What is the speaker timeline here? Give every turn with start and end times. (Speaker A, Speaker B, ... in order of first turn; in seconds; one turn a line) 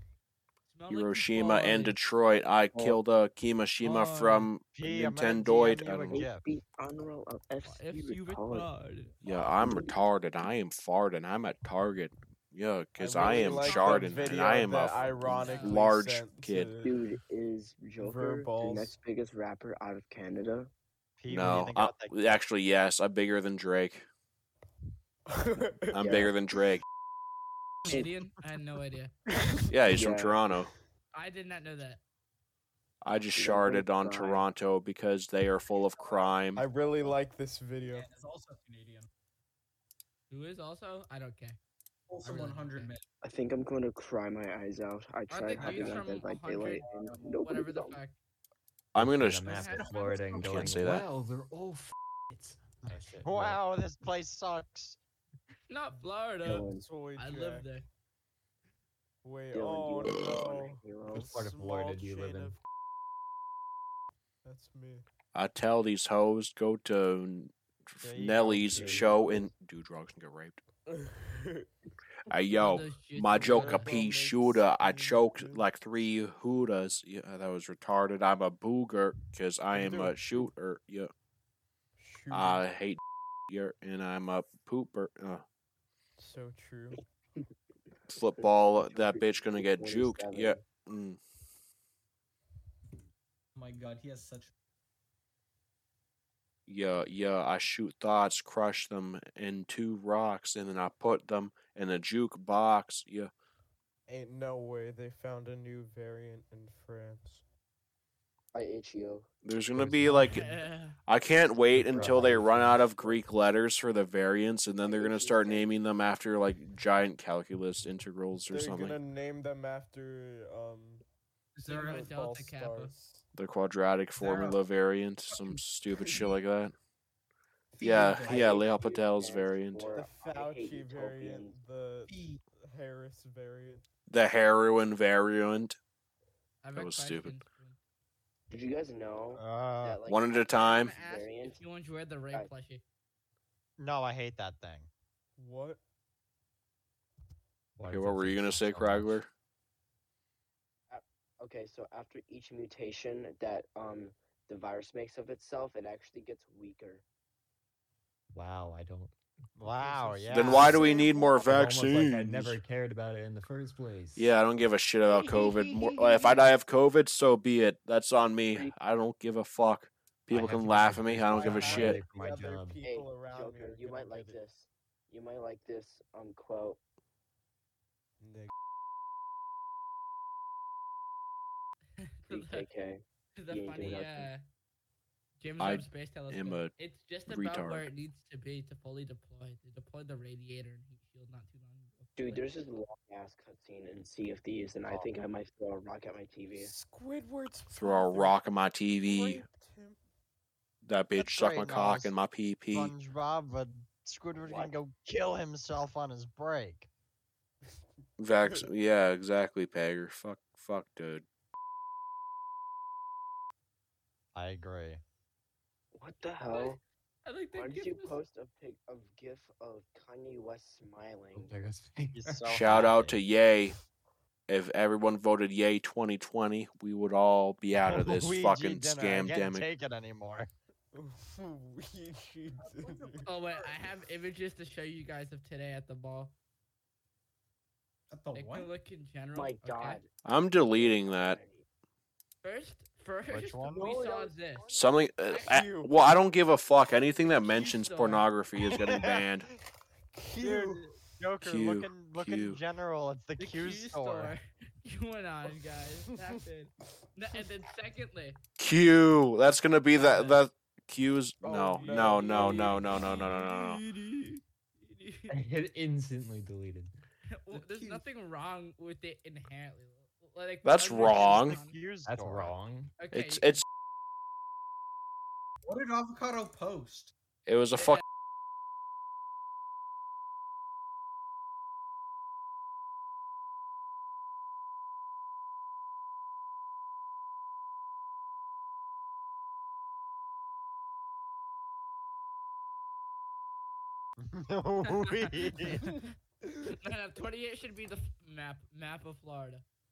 Speaker A: 0.7-2.0
Speaker B: 0.9-6.2
Speaker C: 2.7-3.0
Speaker A: 3.8-4.5
Speaker D: 4.8-6.5
Speaker C: 6.1-8.7
Speaker A: 7.6-9.2
Speaker B: 9.2-16.7
Speaker C: 9.3-9.9
Speaker E: 13.0-17.0
Speaker A: 13.2-14.2
Speaker A: 15.1-15.8
Speaker C: 16.8-20.7
Speaker E: 18.0-19.0
Speaker D: 21.2-22.2
Speaker B: 21.3-24.1
Speaker E: 25.3-26.2
Speaker B: 25.9-26.8
Speaker C: 26.0-26.3
Speaker A: 27.9-29.1
Speaker E: 29.3-29.8
Speaker B: 29.7-30.7
Speaker C: 29.9-30.4
Speaker A: 31.1-32.0
Speaker B: 33.0-36.6
Speaker C: 33.4-34.5
Speaker E: 36.6-38.1
Speaker F: 37.8-39.1
Speaker A: 40.3-41.6
Speaker F: 42.1-43.0
Speaker A: 42.2-42.9
Speaker C: 43.2-48.0
Speaker A: 45.3-48.2
Speaker F: 45.5-47.4
Speaker B: 49.0-49.5
Speaker G: 49.0-53.6
Speaker F: 49.4-50.7
Speaker A: 49.5-50.5
Speaker B: 50.5-51.0
Speaker D: 52.9-55.0
Speaker A: 55.7-57.9
Speaker C: 56.4-56.9
Speaker E: 56.7-57.7
Speaker E: 59.2-62.6
Speaker C: 59.5-61.4
Speaker G: 61.1-62.6
Speaker E: 64.4-65.0
Speaker B: 65.3-70.6
Speaker D: 68.0-69.5
Speaker C: 68.7-69.4
Speaker E: 70.9-71.7
Speaker B: 72.3-81.1
Speaker A: 72.6-73.9
Speaker E: 73.4-75.7
Speaker E: 79.7-80.5
Speaker E: 82.0-82.6
Speaker B: 82.3-85.4
Speaker E: 86.2-87.0
Speaker B: 88.1-91.2
Speaker C: 88.3-90.6
Speaker F: 93.5-94.5
Speaker B: 96.7-103.3
Speaker E: 104.1-107.4
Speaker C: 108.5-109.3
Speaker B: 109.4-110.5
Speaker G: 109.8-110.5
Speaker A: 110.3-111.0
Speaker B: 111.1-119.0
Speaker G: 111.8-112.8
Speaker C: 112.0-113.2
Speaker D: 112.0-112.3
Speaker C: 114.8-115.7
Speaker E: 118.4-121.0
Speaker F: 121.6-122.0
Speaker A: 121.6-122.9
Speaker E: 121.7-123.2
Speaker B: 123.4-126.7
Speaker F: 124.2-124.6
Speaker F: 125.3-125.6
Speaker E: 126.0-126.3
Speaker F: 127.7-128.6
Speaker B: 127.8-129.9
Speaker C: 128.1-131.6
Speaker E: 129.9-133.8
Speaker F: 132.1-132.4
Speaker B: 134.1-135.8
Speaker A: 136.6-137.8
Speaker B: 136.8-137.3
Speaker C: 138.5-141.6
Speaker D: 139.4-140.0
Speaker B: 140.1-140.9
Speaker A: 140.5-142.8
Speaker D: 143.8-144.9
Speaker E: 145.4-145.8
Speaker G: 147.8-149.2
Speaker B: 147.9-149.3
Speaker C: 150.9-157.0
Speaker G: 158.3-159.1
Speaker D: 159.6-160.8
Speaker B: 160.3-162.6
Speaker G: 160.4-164.4
Speaker B: 164.2-172.0
Speaker A: 165.5-165.7
Speaker G: 170.3-172.8
Speaker E: 171.3-174.4
Speaker C: 172.8-176.8
Speaker E: 178.2-178.5
Speaker A: 182.2-182.7
Speaker C: 182.3-184.3
Speaker A: 183.4-184.4
Speaker A: 185.4-192.5
Speaker B: 185.6-186.7
Speaker B: 187.3-187.9
Speaker C: 192.2-196.7
Speaker E: 196.6-198.4
Speaker B: 197.7-199.4
Speaker E: 199.1-200.0
Speaker B: 200.8-202.9
Speaker D: 201.2-202.1
Speaker D: 202.7-206.9
Speaker C: 204.4-204.8
Speaker B: 208.2-211.2
Speaker D: 214.3-215.0
Speaker C: 215.9-216.8
Speaker A: 216.5-218.2
Speaker C: 217.5-221.5
Speaker G: 221.3-222.8
Speaker D: 222.2-223.2
Speaker B: 222.5-223.8
Speaker B: 224.5-229.7
Speaker D: 227.8-230.5
Speaker E: 230.9-233.3
Speaker F: 232.6-233.9
Speaker A: 233.2-236.3
Speaker F: 238.1-238.7
Speaker A: 238.3-240.0
Speaker C: 239.3-240.1
Speaker B: 240.2-241.4
Speaker C: 240.7-241.7
Speaker A: 242.4-244.7
Speaker D: 243.3-243.9
Speaker C: 243.7-244.9
Speaker B: 244.7-249.5
Speaker A: 245.3-245.6
Speaker E: 245.5-245.9
Speaker A: 247.2-248.3
Speaker D: 248.9-249.2
Speaker E: 250.1-250.8
Speaker D: 250.4-254.4
Speaker B: 251.4-252.6
Speaker A: 253.4-258.4
Speaker B: 258.6-263.8
Speaker A: 259.9-260.4
Speaker E: 261.4-263.1
Speaker A: 261.9-265.3
Speaker G: 265.3-266.9
Speaker A: 267.3-271.8
Speaker F: 267.5-268.1
Speaker B: 270.6-271.6
Speaker D: 271.1-272.6
Speaker G: 272.1-272.9
Speaker A: 273.0-273.6
Speaker B: 273.1-273.6
Speaker F: 275.6-277.1
Speaker B: 277.5-278.0
Speaker A: 277.8-278.0
Speaker D: 294.2-295.9
Speaker A: 295.4-296.1
Speaker A: 296.6-299.6